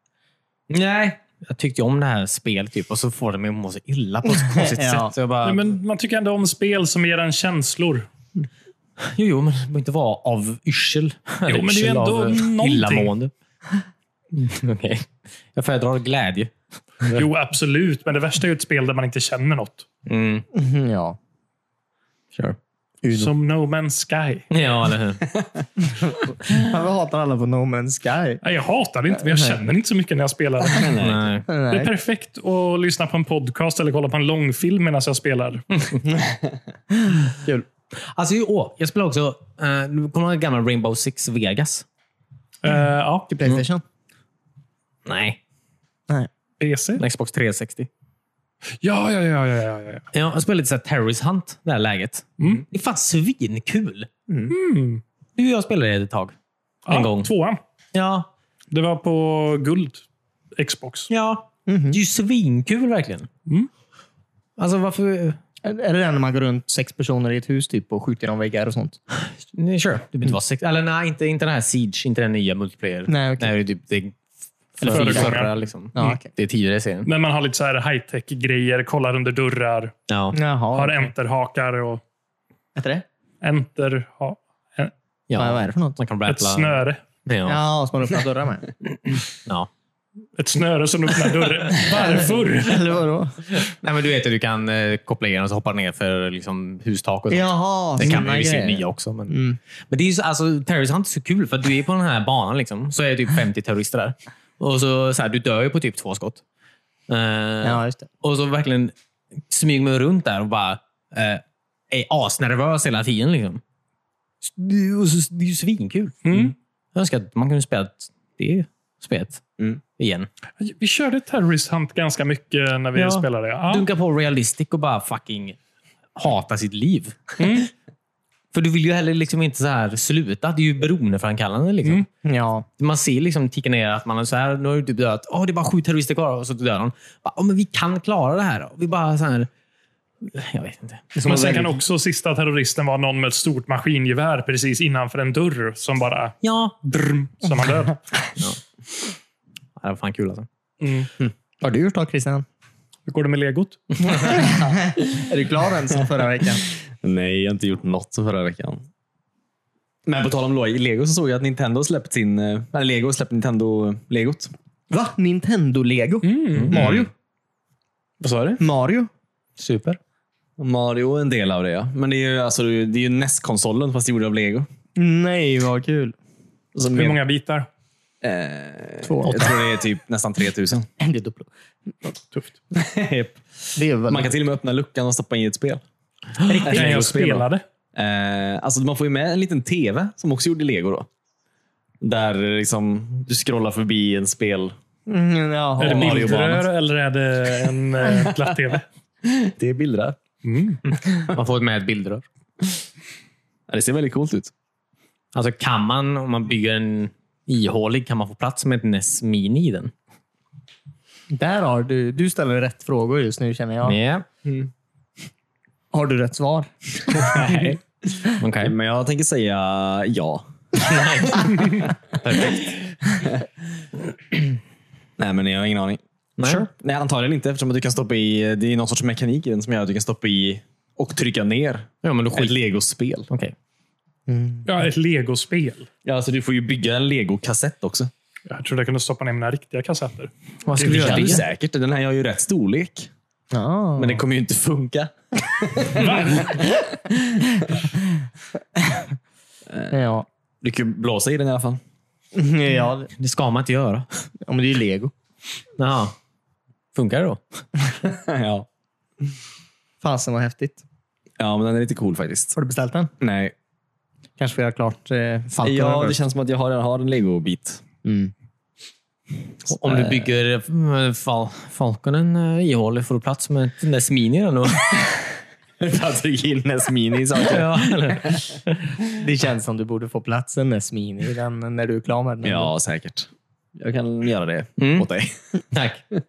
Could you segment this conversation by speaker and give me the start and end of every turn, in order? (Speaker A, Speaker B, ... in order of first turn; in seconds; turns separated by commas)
Speaker A: 0.7-5.7, Speaker B: 4.3-5.1, Speaker C: 5.4-8.1, Speaker A: 9.0-13.3, Speaker C: 11.5-13.1, Speaker A: 14.3-17.2, Speaker C: 17.1-19.9, Speaker A: 20.1-20.5, Speaker B: 20.5-21.2, Speaker B: 23.0-23.3, Speaker C: 23.1-24.5, Speaker A: 24.5-25.3, Speaker B: 25.8-28.4, Speaker C: 28.4-30.9, Speaker B: 29.2-29.6, Speaker D: 30.7-31.3, Speaker A: 31.0-31.5, Speaker B: 31.5-31.9, Speaker C: 31.7-35.6, Speaker A: 38.0-41.9, Speaker C: 42.6-43.3, Speaker B: 43.3-43.8, Speaker A: 45.1-45.4, Speaker C: 46.6-47.0, Speaker A: 47.0-47.9, Speaker C: 48.8-50.1, Speaker A: 50.1-54.1, Speaker C: 52.4-52.6, Speaker B: 54.3-54.5, Speaker C: 54.5-55.0, Speaker A: 55.4-56.4, Speaker C: 56.9-57.6, Speaker A: 56.9-57.3, Speaker A: 57.9-58.3, Speaker C: 58.7-60.0, Speaker C: 60.6-61.1, Speaker A: 61.1-63.3, Speaker B: 61.7-62.0, Speaker A: 64.6-65.4, Speaker B: 65.6-69.0, Speaker A: 69.1-74.2, Speaker B: 73.1-73.5, Speaker A: 74.8-77.1, Speaker B: 74.8-76.3, Speaker C: 74.9-76.2, Speaker C: 77.0-79.9, Speaker A: 80.1-80.4, Speaker B: 80.3-81.1, Speaker C: 80.7-82.0, Speaker B: 82.8-83.1, Speaker C: 83.4-84.9, Speaker A: 85.3-87.6, Speaker B: 85.4-86.0, Speaker C: 86.3-87.0, Speaker B: 87.5-88.7, Speaker A: 89.2-89.7, Speaker C: 90.4-93.0, Speaker B: 91.9-93.4, Speaker A: 93.6-106.4, Speaker B: 97.3-99.6, Speaker A: 107.1-108.9, Speaker B: 107.6-108.1, Speaker A: 109.5-113.6, Speaker A: 114.4-119.4, Speaker C: 116.2-116.5, Speaker A: 120.0-120.3, Speaker C: 120.6-123.9, Speaker A: 123.0-125.6, Speaker A: 126.2-127.4, Speaker C: 127.4-127.7, Speaker A: 128.5-132.1, Speaker B: 132.2-132.7, Speaker A: 132.8-139.5, Speaker A: 140.2-141.2, Speaker B: 141.1-141.8, Speaker C: 141.2-146.3, Speaker A: 146.4-147.3, Speaker C: 147.1-148.0, Speaker A: 149.8-150.5, Speaker C: 150.8-151.1, Speaker B: 151.6-152.5, Speaker C: 153.1-153.8, Speaker B: 154.1-156.7, Speaker D: 157.0-158.8, Speaker D: 160.1-164.5, Speaker B: 164.9-167.1, Speaker C: 166.2-166.8, Speaker A: 166.6-167.1, Speaker D: 166.7-167.1, Speaker D: 168.2-168.6, Speaker B: 168.6-169.1, Speaker A: 169.6-170.0, Speaker D: 170.6-174.7, Speaker B: 175.0-176.2, Speaker D: 176.8-177.2, Speaker C: 176.9-177.7, Speaker D: 178.2-180.9, Speaker B: 179.0-179.6, Speaker B: 181.0-181.5, Speaker D: 182.7-183.4, Speaker B: 183.8-184.3, Speaker D: 184.1-185.8, Speaker B: 186.5-187.0, Speaker D: 186.5-191.1, Speaker C: 186.7-187.6, Speaker D: 192.0-194.8, Speaker B: 195.1-196.4, Speaker C: 195.8-198.8, Speaker D: 195.8-196.6, Speaker D: 199.2-200.2, Speaker C: 200.4-200.8, Speaker A: 201.2-202.2, Speaker D: 203.7-204.5, Speaker A: 205.3-209.9, Speaker B: 211.3-214.0, Speaker A: 213.8-214.2, Speaker B: 215.9-217.6, Speaker D: 217.1-217.8, Speaker A: 218.4-218.8, Speaker D: 218.6-221.9, Speaker A: 220.8-223.0, Speaker D: 225.2-233.3, Speaker A: 226.4-226.7, Speaker A: 232.0-232.6, Speaker B: 234.3-234.7, Speaker C: 234.7-235.9, Speaker D: 236.1-238.1, Speaker C: 238.5-241.4, Speaker A: 240.7-241.4, Speaker D: 240.9-243.1, Speaker B: 243.5-244.2, Speaker D: 244.0-246.5, Speaker C: 246.0-246.6, Speaker B: 248.8-249.1, Speaker B: 249.9-250.3, Speaker D: 250.6-251.8, Speaker B: 252.3-253.1, Speaker A: 253.2-254.1, Speaker B: 254.4-255.1, Speaker A: 255.8-256.2, Speaker A: 256.9-257.6, Speaker D: 258.0-258.7, Speaker B: 260.0-260.8, Speaker D: 261.4-262.6, Speaker B: 262.6-263.1, Speaker D: 263.2-263.5, Speaker B: 264.4-266.2, Speaker D: 265.6-267.8, Speaker B: 268.0-268.3, Speaker A: 269.7-275.1, Speaker D: 275.8-278.4, Speaker A: 277.4-279.0, Speaker B: 279.2-282.7, Speaker D: 282.4-285.6, Speaker A: 284.8-285.1, Speaker A: 285.7-286.0